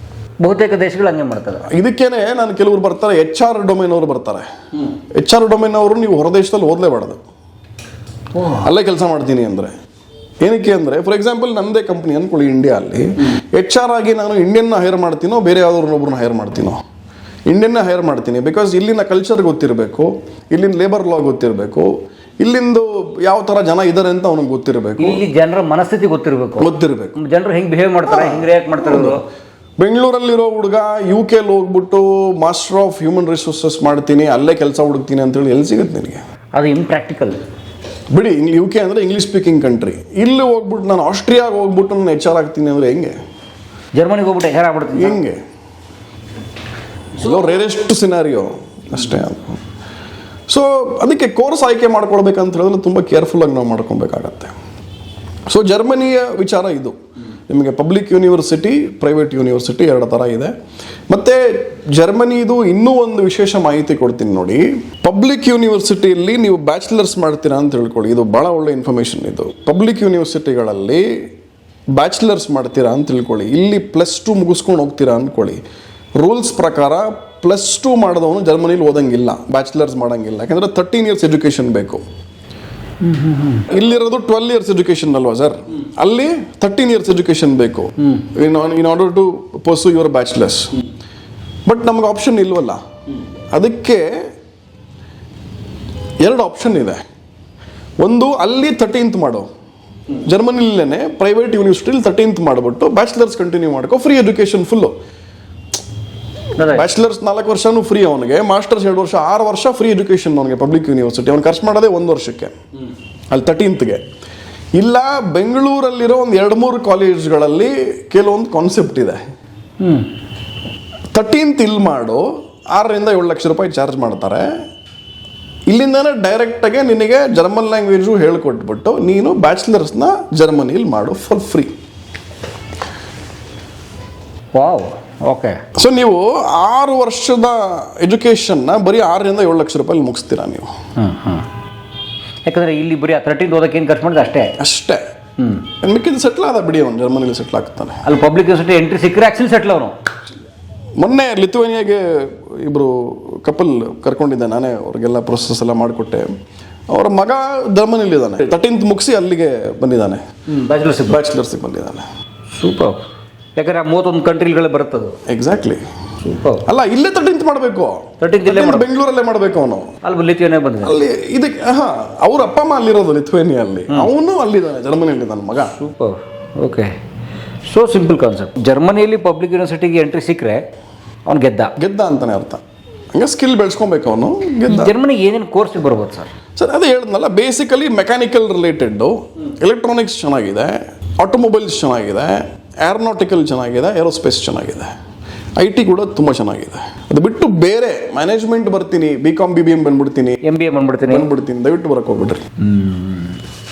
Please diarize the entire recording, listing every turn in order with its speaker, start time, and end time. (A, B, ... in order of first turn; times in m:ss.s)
0:00.4-0:01.6 A
0:01.7-0:04.5 B
0:05.1-0:07.2 B
0:08.3-0:08.6 A
0:08.5-0:09.7 B
0:10.4-0:16.8 B
0:17.5-0:25.2 B
0:25.0-0:29.2 A
0:26.6-0:27.2 B
0:28.1-0:29.2 B
0:29.8-0:36.2 B
0:36.5-0:37.4 A
0:38.1-0:43.2 B
0:43.9-0:45.2 A
0:44.9-0:45.4 B
0:47.2-0:49.6 B
0:50.5-0:54.5 B
0:55.5-1:00.5 B
1:01.1-1:11.3 B
1:11.9-1:15.6 B
1:16.1-1:22.0 B
1:23.0-1:23.7 A
1:23.7-1:30.8 B
1:31.6-1:32.8 B
1:33.5-1:34.3 B
1:36.2-1:37.0 B
1:38.0-1:39.5 B
1:40.2-1:44.9 B
1:46.6-1:52.5 B
1:46.6-1:46.8 A
1:53.3-1:54.0 B
1:54.8-1:59.2 B
1:59.8-2:00.1 A
2:01.1-2:04.6 B
2:05.7-2:11.7 B
2:14.5-2:15.6 A
2:15.7-2:20.7 B
2:21.0-2:21.5 A
2:22.4-2:24.6 A
2:24.6-2:25.0 B
2:25.4-2:25.6 A
2:25.8-2:28.0 B
2:28.0-2:30.0 A
2:31.0-2:36.3 B
2:36.9-2:40.2 B
2:40.5-2:41.2 A
2:41.1-2:42.0 B
2:42.5-2:43.0 A
2:43.6-2:45.2 A
2:45.3-2:45.8 B
2:46.2-2:46.6 A
2:46.6-2:50.0 B
2:48.2-2:48.9 A
2:50.0-2:51.0 A
2:50.8-2:55.8 B
2:55.6-2:56.9 A
2:57.6-3:00.6 A
3:01.2-3:01.7 A
3:01.8-3:02.6 B
3:03.1-3:05.0 B
3:04.7-3:06.3 A
3:06.6-3:14.9 B
3:15.6-3:20.4 B
3:20.4-3:21.3 A
3:21.1-3:22.5 B
3:22.6-3:23.4 A